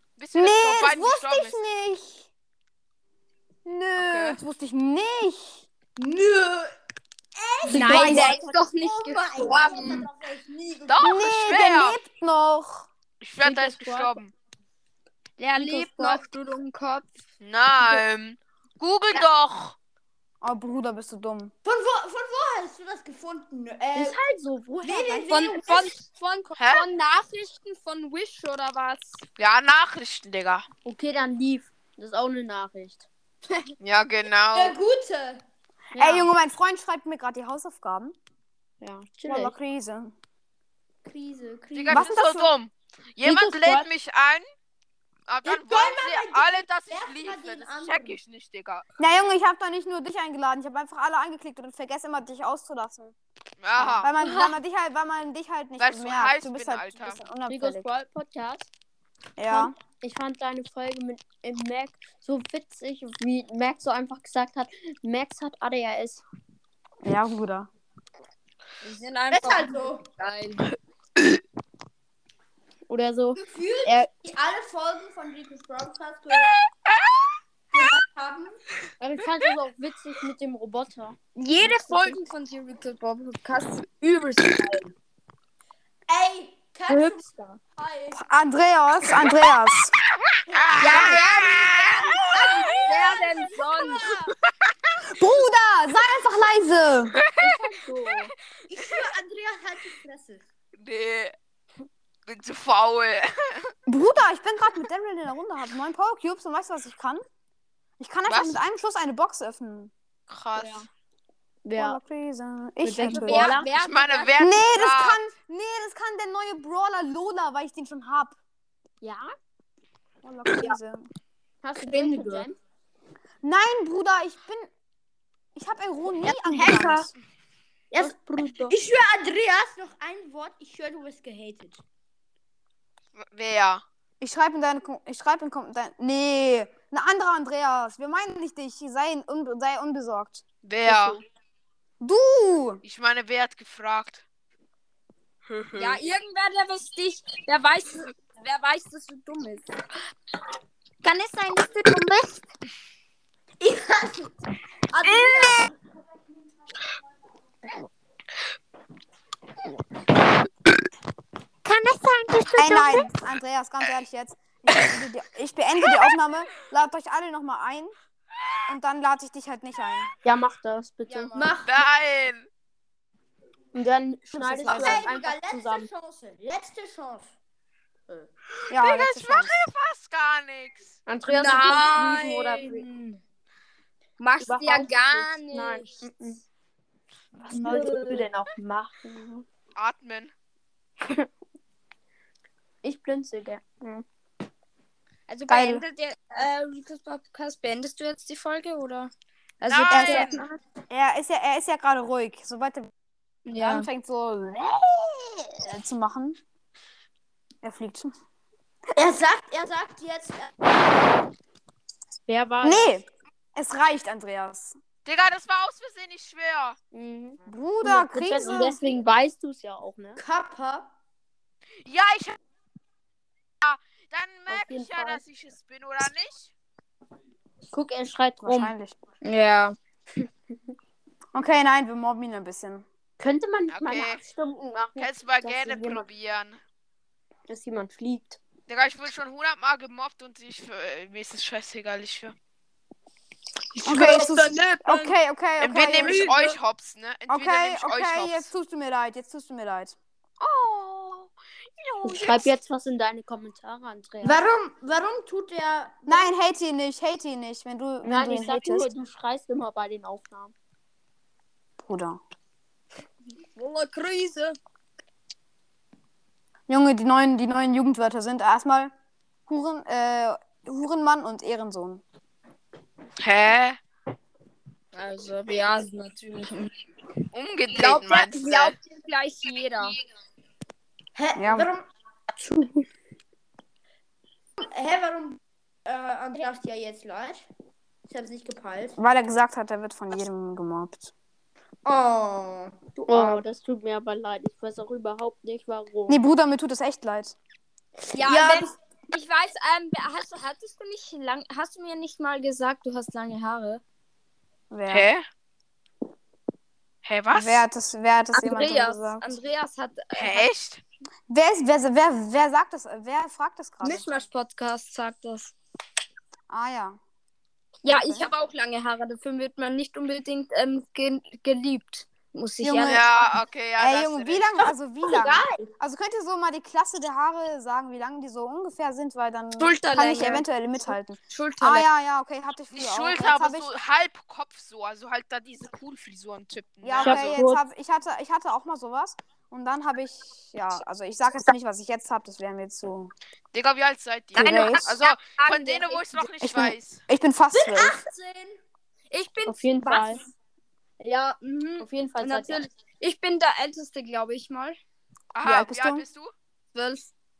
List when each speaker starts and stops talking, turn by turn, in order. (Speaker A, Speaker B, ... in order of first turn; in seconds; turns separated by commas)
Speaker A: 0.2-1.6, Speaker B: 0.3-2.3, Speaker B: 3.6-5.6, Speaker A: 4.0-4.4, Speaker C: 6.0-6.7, Speaker C: 7.3-11.2, Speaker D: 7.7-10.1, Speaker B: 7.7-8.3, Speaker E: 7.7-8.6, Speaker A: 9.7-10.0, Speaker A: 10.9-12.0, Speaker B: 11.0-12.9, Speaker A: 13.2-14.3, Speaker E: 13.4-14.2, Speaker E: 15.4-16.2, Speaker D: 15.5-17.1, Speaker A: 17.4-19.8, Speaker B: 20.4-21.5, Speaker C: 21.6-24.2, Speaker E: 23.9-25.2, Speaker C: 24.8-25.9, Speaker D: 25.3-29.2, Speaker A: 26.6-26.8, Speaker A: 29.4-30.6, Speaker E: 30.8-33.0, Speaker A: 33.8-34.8, Speaker C: 34.5-35.4, Speaker E: 35.9-36.3, Speaker B: 36.0-38.1, Speaker E: 38.8-39.5, Speaker B: 39.2-40.1, Speaker C: 41.0-42.0, Speaker A: 41.7-44.5, Speaker B: 41.9-42.5, Speaker E: 43.2-43.9, Speaker A: 45.3-48.8, Speaker C: 45.4-48.2, Speaker B: 49.0-53.1, Speaker A: 53.6-54.1, Speaker E: 53.8-54.3, Speaker B: 54.0-57.9, Speaker A: 55.8-57.2, Speaker E: 57.5-58.7, Speaker B: 59.4-59.7, Speaker E: 59.5-66.2, Speaker B: 67.0-67.7, Speaker D: 68.8-70.7, Speaker C: 69.3-70.1, Speaker E: 72.9-73.4, Speaker C: 73.3-76.5, Speaker A: 76.3-77.3, Speaker C: 77.7-78.6, Speaker E: 79.0-82.2, Speaker D: 81.3-84.9, Speaker C: 86.1-87.2, Speaker E: 86.9-87.6, Speaker C: 87.8-88.2, Speaker B: 88.1-89.9, Speaker A: 90.5-93.0, Speaker C: 90.8-94.3, Speaker D: 90.8-91.5, Speaker D: 92.3-94.1, Speaker B: 95.1-97.2, Speaker E: 97.4-98.3, Speaker C: 98.7-100.4, Speaker A: 100.8-101.3, Speaker A: 102.3-103.7, Speaker B: 103.9-107.2, Speaker B: 108.0-109.9, Speaker A: 108.3-108.6, Speaker A: 110.3-110.9, Speaker E: 110.5-110.9, Speaker E: 111.6-112.0, Speaker B: 111.8-113.6, Speaker E: 112.8-113.7, Speaker D: 113.1-114.3, Speaker A: 113.7-115.2, Speaker B: 114.4-118.3, Speaker E: 119.0-119.3, Speaker B: 120.2-121.1, Speaker E: 121.6-122.6, Speaker C: 121.8-122.5, Speaker B: 123.4-124.7, Speaker B: 125.5-127.1, Speaker C: 126.2-127.0, Speaker E: 128.0-128.8, Speaker C: 128.7-131.8, Speaker A: 133.1-133.8, Speaker B: 134.2-140.4, Speaker A: 140.6-141.2, Speaker B: 142.0-142.8, Speaker A: 142.8-144.2, Speaker A: 145.5-146.0, Speaker D: 145.7-149.7, Speaker D: 151.0-152.4, Speaker C: 153.6-154.3, Speaker D: 154.9-155.7, Speaker A: 155.0-155.7, Speaker D: 161.6-163.1, Speaker B: 162.6-167.9, Speaker B: 168.7-170.1, Speaker E: 170.2-171.5, Speaker C: 171.1-171.8, Speaker A: 171.6-172.5, Speaker E: 173.7-175.9, Speaker B: 174.3-175.1, Speaker C: 174.5-177.4, Speaker A: 178.6-181.0, Speaker B: 178.7-179.5, Speaker E: 181.1-182.9, Speaker D: 181.3-183.2, Speaker C: 181.8-182.8, Speaker D: 184.2-186.0, Speaker E: 184.4-186.4, Speaker E: 187.5-189.4, Speaker C: 187.5-188.1, Speaker D: 187.7-188.1, Speaker A: 189.8-190.3, Speaker E: 192.8-194.0, Speaker D: 195.3-200.6, Speaker B: 195.5-195.8, Speaker A: 199.7-200.4, Speaker B: 199.9-202.9, Speaker D: 203.4-203.9, Speaker B: 203.6-206.4, Speaker B: 207.6-208.1, Speaker C: 208.9-210.8, Speaker E: 212.2-213.0, Speaker B: 212.6-214.8, Speaker A: 215.0-216.8, Speaker E: 216.9-220.2, Speaker B: 217.4-218.8, Speaker C: 220.2-220.9, Speaker A: 221.8-222.4, Speaker A: 223.6-226.5, Speaker E: 224.5-225.2, Speaker E: 227.7-228.8, Speaker B: 228.4-229.0, Speaker D: 229.2-229.8, Speaker B: 231.3-232.8, Speaker E: 233.2-236.0, Speaker A: 233.7-234.2, Speaker A: 234.9-236.6, Speaker E: 237.5-238.4, Speaker A: 238.7-242.3, Speaker B: 243.8-246.3, Speaker C: 243.8-245.1, Speaker A: 245.6-248.5, Speaker B: 247.3-249.9, Speaker A: 250.4-252.3, Speaker E: 252.0-254.4, Speaker C: 254.2-256.3, Speaker B: 256.1-258.9, Speaker E: 258.0-260.5, Speaker B: 261.8-262.2, Speaker D: 263.5-264.6, Speaker B: 266.7-268.9, Speaker B: 269.5-272.0, Speaker A: 273.2-273.8, Speaker D: 274.9-276.7, Speaker A: 277.3-278.7, Speaker D: 277.7-280.0, Speaker C: 281.1-281.9, Speaker B: 281.4-281.7, Speaker E: 282.4-282.9, Speaker C: 284.6-287.5, Speaker C: 288.0-289.0, Speaker B: 289.0-291.1, Speaker C: 291.8-292.7, Speaker E: 293.0-296.2, Speaker B: 293.1-293.4, Speaker B: 296.1-297.4, Speaker D: 298.1-303.8, Speaker C: 298.2-298.7, Speaker B: 304.7-305.1, Speaker A: 304.9-305.2, Speaker A: 307.0-307.6, Speaker B: 307.3-309.3, Speaker D: 308.3-310.5, Speaker A: 310.1-310.8, Speaker B: 311.3-314.2, Speaker D: 313.8-315.5, Speaker B: 316.5-317.0, Speaker D: 317.8-323.0, Speaker B: 317.9-318.3, Speaker B: 322.6-323.1, Speaker A: 322.8-324.6, Speaker B: 323.8-333.7, Speaker C: 325.1-325.6, Speaker D: 329.6-331.9, Speaker A: 332.7-337.4, Speaker B: 336.8-343.1, Speaker E: 337.0-337.6, Speaker A: 343.5-347.0, Speaker D: 344.3-346.3, Speaker B: 344.4-344.9, Speaker B: 346.4-348.0, Speaker D: 347.6-348.0, Speaker C: 348.0-348.6, Speaker D: 349.1-350.2, Speaker E: 349.4-350.2, Speaker D: 351.0-354.8, Speaker E: 351.8-352.6, Speaker A: 355.3-356.3, Speaker B: 355.4-356.0, Speaker D: 356.7-357.1